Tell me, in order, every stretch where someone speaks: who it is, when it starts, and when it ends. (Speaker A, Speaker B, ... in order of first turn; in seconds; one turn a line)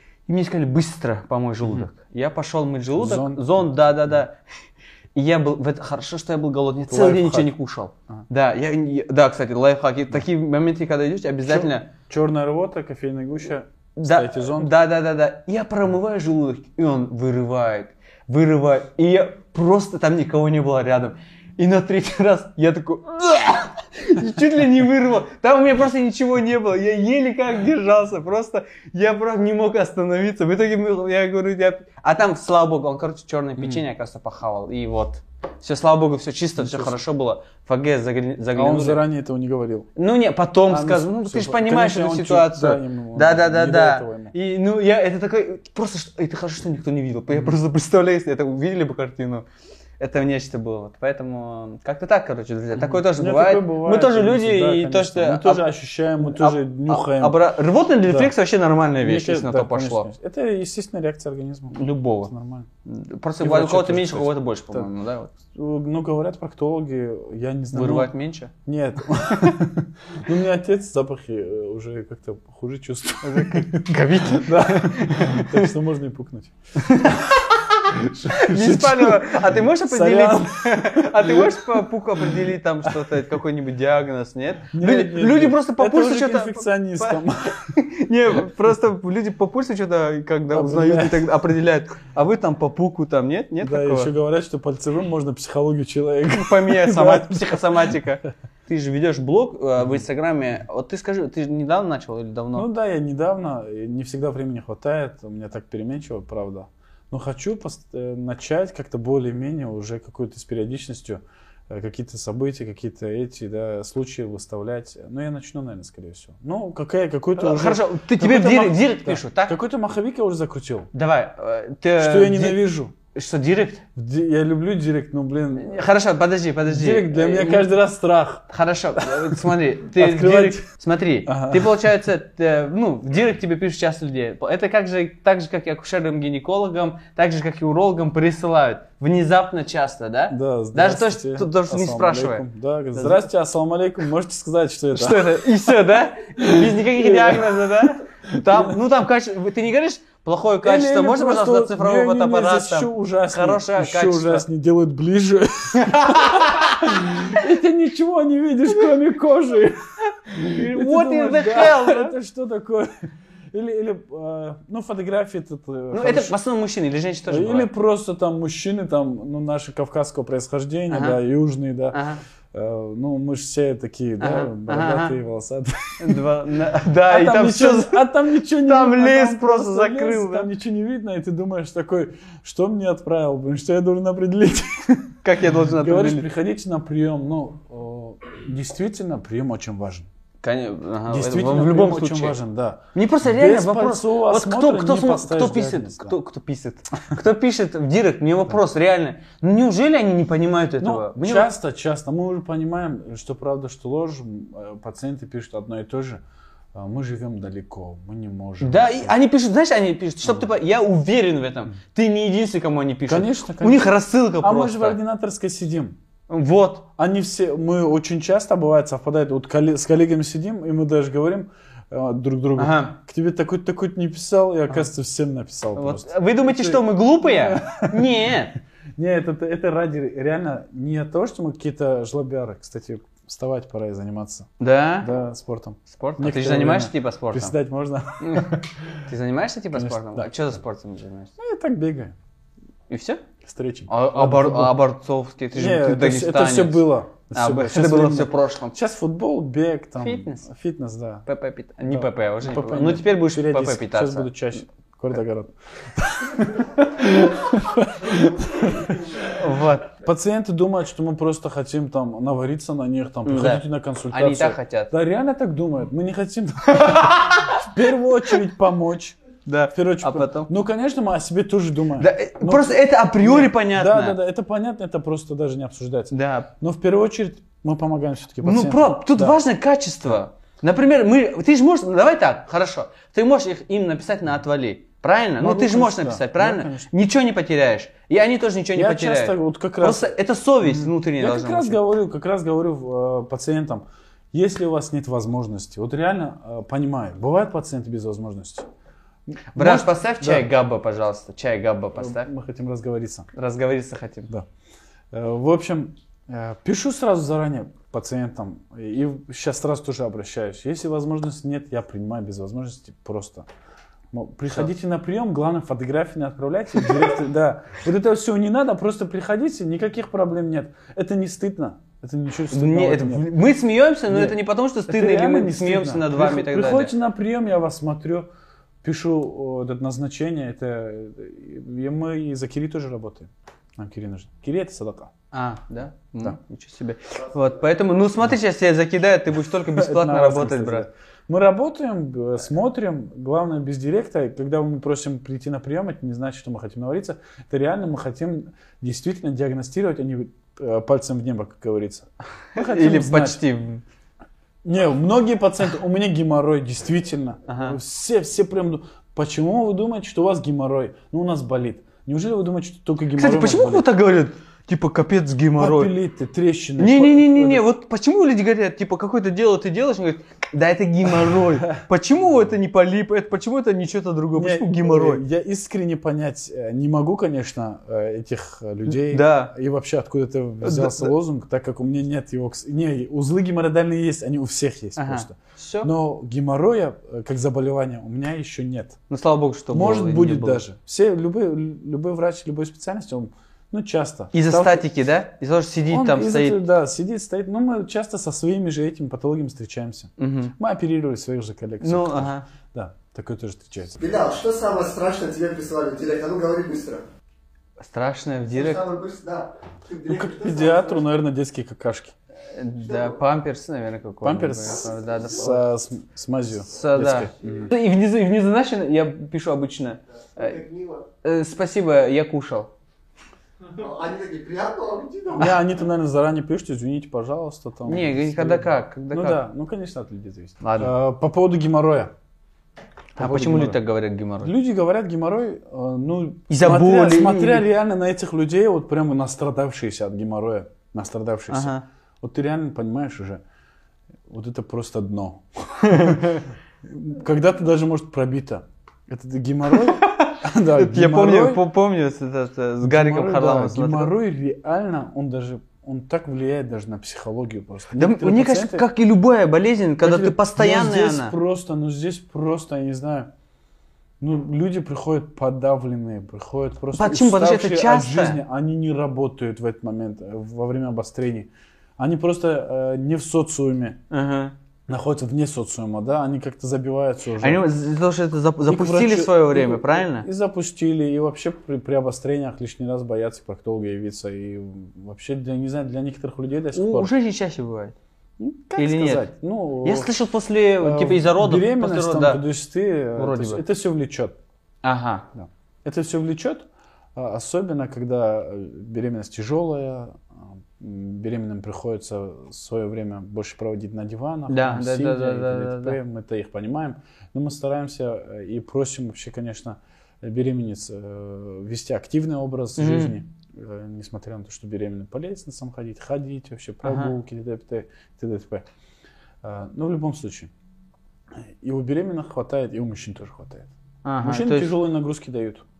Speaker A: 0.3-4.4
Speaker B: 3.0-3.8
Speaker A: 5.2-11.9
Speaker B: 6.9-7.5
Speaker B: 11.5-14.8
Speaker A: 14.0-39.0
Speaker B: 36.6-37.0
Speaker B: 38.5-39.9
Speaker A: 40.0-49.5
Speaker B: 40.7-44.4
Speaker A: 50.0-55.7
Speaker B: 52.8-57.4
Speaker A: 56.2-60.1
Speaker B: 58.1-58.3
Speaker B: 59.0-62.7
Speaker A: 61.7-62.3
Speaker A: 62.9-65.4
Speaker B: 63.4-64.9
Speaker B: 65.5-68.1
Speaker A: 67.7-68.5
Speaker B: 68.6-77.1
Speaker A: 69.3-69.5
Speaker A: 73.2-75.7
Speaker A: 76.8-77.5
Speaker B: 77.9-81.8
Speaker A: 78.3-94.1
Speaker B: 84.7-87.7
Speaker B: 90.5-91.4
Speaker B: 93.6-98.0
Speaker A: 96.3-102.7
Speaker B: 102.5-120.9
Speaker A: 117.4-119.6
Speaker A: 120.9-123.8
Speaker B: 122.0-122.9
Speaker B: 124.0-125.8
Speaker A: 125.5-127.7
Speaker B: 126.7-130.7
Speaker A: 128.5-143.3
Speaker B: 131.2-131.8
Speaker B: 140.3-145.7
Speaker A: 144.9-154.5
Speaker B: 146.4-147.8
Speaker B: 150.6-166.4
Speaker A: 155.8-157.3
Speaker A: 160.5-162.1
Speaker A: 165.9-167.7
Speaker B: 167.3-172.0
Speaker A: 170.9-171.2
Speaker A: 171.9-172.2
Speaker B: 172.5-176.2
Speaker A: 174.2-175.2
Speaker A: 176.0-178.0
Speaker B: 177.0-185.1
Speaker A: 178.6-180.5
Speaker A: 185.2-186.3
Speaker B: 185.7-190.1
Speaker A: 190.4-192.4
Speaker B: 191.1-196.2
Speaker A: 192.9-201.5
Speaker B: 200.8-206.2
Speaker B: 206.7-209.2
Speaker A: 208.6-215.0
Speaker B: 213.1-216.0
Speaker A: 216.3-216.9
Speaker B: 217.0-228.4
Speaker A: 222.6-222.9
Speaker A: 225.8-228.6
Speaker B: 229.0-239.0
Speaker A: 234.6-235.1
Speaker A: 235.9-237.6
Speaker A: 238.2-238.6
Speaker A: 239.1-241.3
Speaker B: 239.7-240.3
Speaker B: 241.4-242.2
Speaker A: 242.9-243.2
Speaker B: 243.4-244.8
Speaker A: 243.9-248.8
Speaker B: 245.5-251.3
Speaker A: 250.0-250.4
Speaker A: 251.3-254.3
Speaker B: 251.9-259.2
Speaker A: 259.2-259.9
Speaker B: 260.0-269.2
Speaker A: 263.2-264.9
Speaker A: 266.7-267.5
Speaker A: 269.5-270.5
Speaker B: 269.7-279.4
Speaker A: 272.0-274.2
Speaker A: 276.1-276.5
Speaker A: 278.4-291.8
Speaker B: 285.4-286.9
Speaker B: 288.8-298.7
Speaker B: 299.3-300.5
Speaker A: 299.6-302.3
Speaker B: 302.0-303.3
Speaker A: 303.3-304.3
Speaker B: 305.1-313.5
Speaker B: 314.1-323.3
Speaker A: 322.5-326.9
Speaker B: 324.1-328.3
Speaker B: 328.8-335.1
Speaker A: 335.3-340.9
Speaker B: 339.6-353.4
Speaker A: 352.6-353.8
Speaker B: 354.6-363.9
Speaker A: 357.5-357.8
Speaker A: 363.2-365.9
Speaker B: 365.6-367.7
Speaker A: 366.8-375.2
Speaker B: 374.4-389.0
Speaker A: 378.9-379.5
Speaker A: 380.6-381.1
Speaker A: 385.0-385.9
Speaker A: 389.1-390.6
Speaker B: 389.7-394.9
Speaker A: 394.3-396.6
Speaker B: 395.9-404.0
Speaker A: 400.2-400.6
Speaker A: 401.8-402.5
Speaker C: 404.0-407.0
Speaker A: 407.8-408.9
Speaker C: 408.5-411.0
Speaker B: 410.1-412.1
Speaker A: 412.5-415.6
Speaker C: 412.9-413.2
Speaker B: 414.2-417.7
Speaker C: 414.9-415.5
Speaker A: 416.6-420.6
Speaker C: 417.4-417.7
Speaker C: 420.3-421.1
Speaker A: 421.2-422.7
Speaker C: 423.8-425.6
Speaker B: 425.3-432.1
Speaker A: 427.9-429.4
Speaker A: 430.6-430.9
Speaker A: 433.2-434.5
Speaker B: 433.2-433.8
Speaker B: 434.4-443.4
Speaker A: 436.5-437.7
Speaker A: 441.5-441.8
Speaker B: 444.3-451.6
Speaker A: 445.9-446.4
Speaker A: 449.7-454.1
Speaker B: 452.8-458.9
Speaker A: 457.9-461.3
Speaker B: 460.0-463.3
Speaker B: 464.2-474.0
Speaker A: 466.9-468.4
Speaker A: 474.1-474.6
Speaker B: 474.9-477.6
Speaker A: 477.4-480.3
Speaker B: 478.7-487.1
Speaker A: 486.7-487.9
Speaker B: 488.4-490.1
Speaker A: 488.8-489.3
Speaker A: 489.8-492.4
Speaker B: 490.8-494.4
Speaker A: 493.2-493.6
Speaker A: 494.8-495.3
Speaker B: 495.3-500.2
Speaker B: 500.8-518.7
Speaker A: 504.5-506.0
Speaker A: 512.8-513.2
Speaker A: 516.8-517.1
Speaker B: 519.4-520.5
Speaker B: 521.6-523.7
Speaker A: 524.0-524.7
Speaker B: 524.2-525.6